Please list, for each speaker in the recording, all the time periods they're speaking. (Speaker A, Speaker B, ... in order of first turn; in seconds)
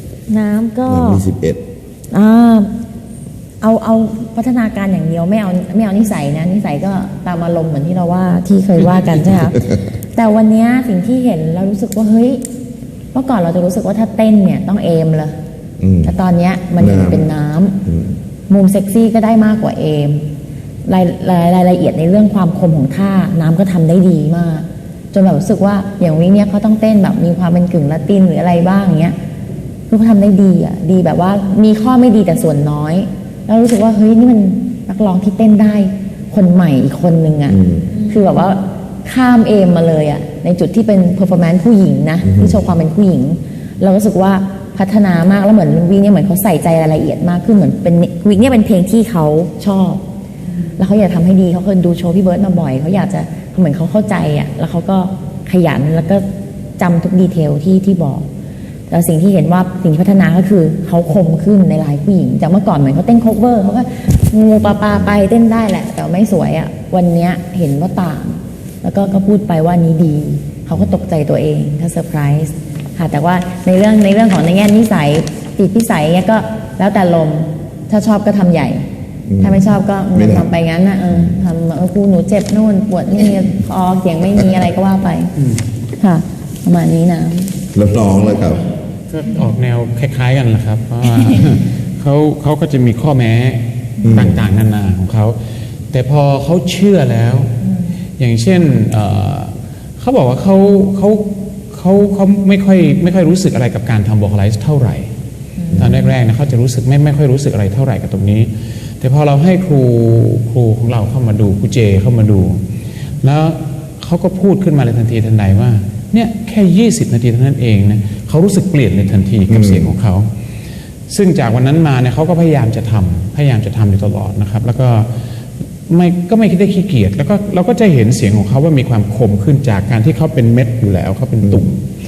Speaker A: 0.3-1.2, 2.1-2.7, 3.6-12.4, 13.1-15.3, 16.0-17.8, 18.5-20.2, 20.9-29.1, 29.9-50.0, 50.8-56.2, 56.8-58.2, 58.9-78.8, 79.4-85.3, 86.0-87.5, 105.6-105.9
Speaker B: 0.8-1.6, 15.8-16.1, 16.8-17.2, 17.9-18.1, 37.5-37.9, 42.2-42.6, 64.6-65.1, 79.3-80.5, 87.7-88.7, 94.0-94.4, 119.5-119.9
Speaker C: 89.1-95.3, 95.9-97.5, 98.2-105.1, 105.7-108.5, 109.0-112.6, 113.2-120.2, 121.1-125.1, 125.9-131.8